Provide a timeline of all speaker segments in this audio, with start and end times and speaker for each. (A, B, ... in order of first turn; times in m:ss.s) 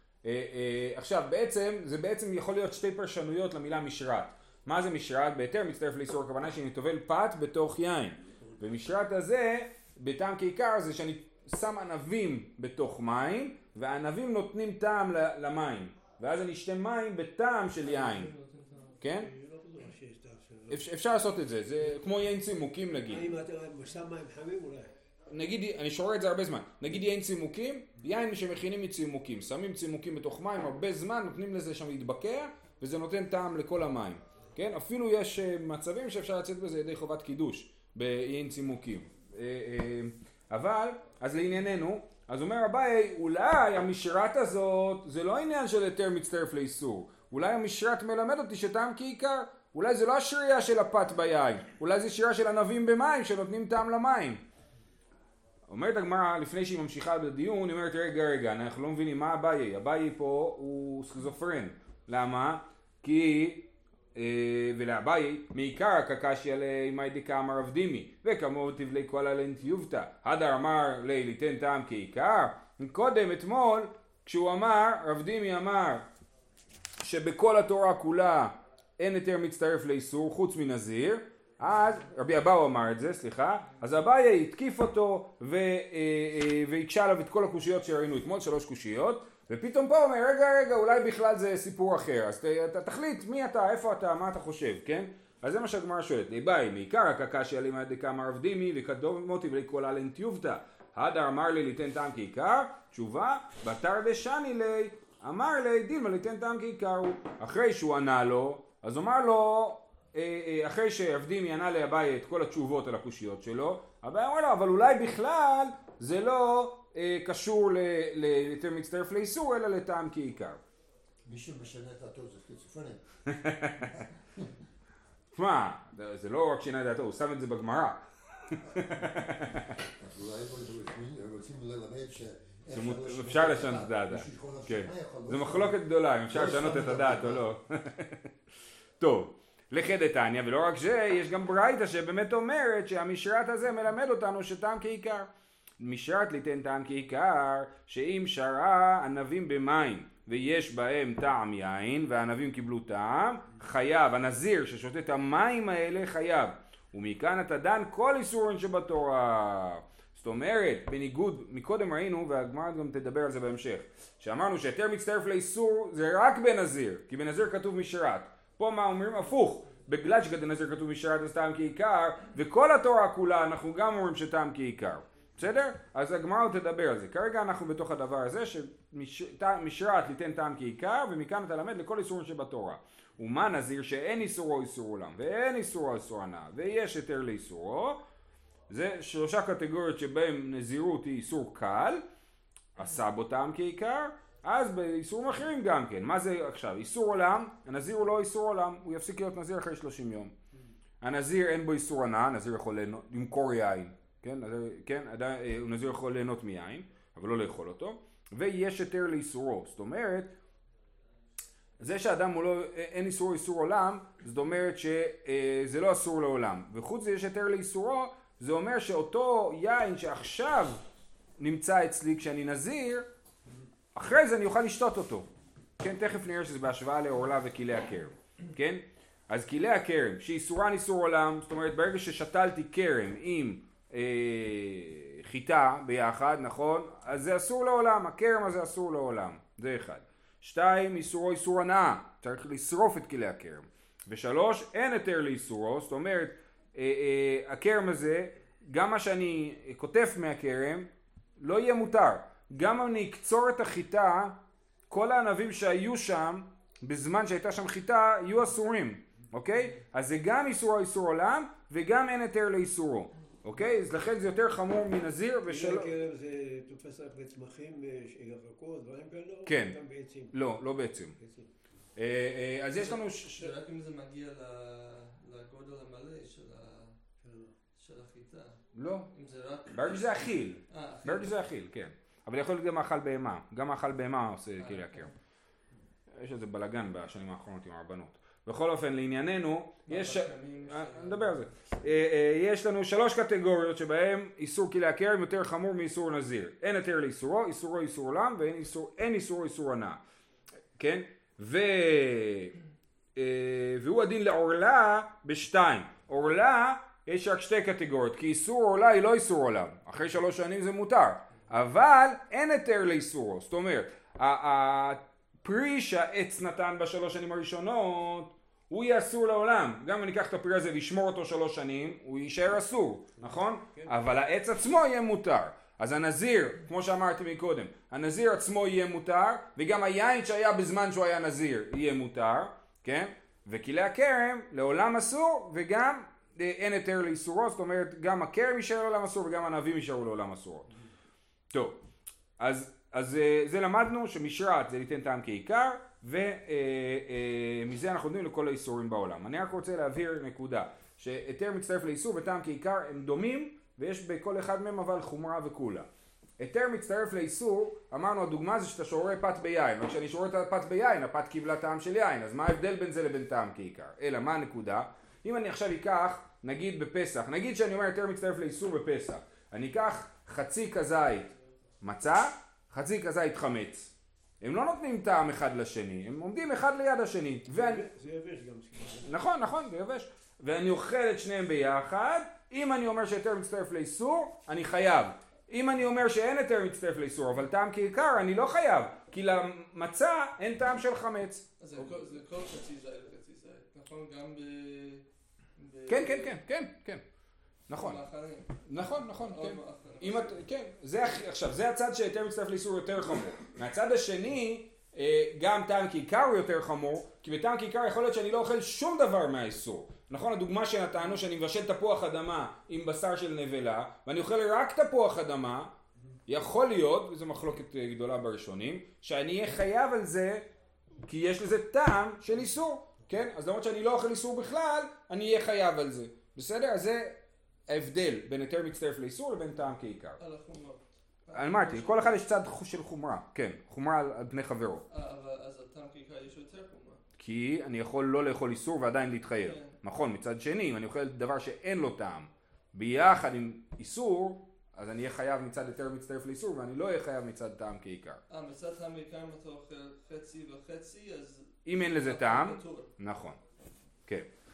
0:00.2-0:18.3 A
0:17.8-0:19.0 B
0:19.0-0:19.3 A
0:19.1-0:20.8 C
0:20.7-0:23.3 A
0:23.1-0:24.9 C
0:25.3-0:54.4 A
0:55.7-1:16.1 A
1:17.0-2:00.6 A
2:01.2-2:03.0 D
2:03.3-2:04.0 A
2:04.0-2:04.5 D
2:05.3-2:09.8 A
2:10.0-2:17.5 D
2:12.7-2:18.3 A
2:19.0-2:25.3 A
2:25.8-3:08.0 A
3:08.7-3:12.0 A
3:12.8-3:20.3 A
3:21.0-3:30.3 A
3:31.8-3:40.8 A
3:41.4-3:43.1 A
3:44.0-3:45.3 A
3:45.8-4:14.4 A
4:14.9-4:25.9 A
4:25.5-4:30.4 C
4:29.4-4:29.8 A
4:30.3-4:31.2 A
4:31.2-4:31.5 C
4:32.0-4:33.5 A
4:32.7-4:36.9 B
4:37.2-4:37.5 C
4:37.8-4:38.6 B
4:38.8-4:39.1 A
4:39.1-4:41.4 B
4:39.7-4:45.1 A
4:44.6-4:45.1 B
4:46.2-5:00.0 A
4:49.9-4:51.4 B
5:00.8-5:02.6 A
5:03.2-5:40.7 A
5:41.5-5:41.8 A
5:42.4-5:55.9 A
5:56.4-6:11.3 A
6:11.8-6:17.9 A
6:17.5-6:19.1 C
6:19.0-6:31.9 A
6:31.6-6:35.0 B
6:35.6-6:36.4 B
6:35.9-6:37.0 A
6:37.7-6:38.0 A
6:37.8-6:40.4 B
6:38.6-6:55.7 A
6:56.3-7:00.4 A
7:01.1-7:07.2 A
7:07.7-7:10.2 A
7:10.2-7:12.2 B
7:11.3-7:14.8 A
7:14.9-7:17.0 B
7:17.2-7:28.2 A
7:19.4-7:19.7 B
7:28.3-7:32.9 B
7:31.7-7:33.4 A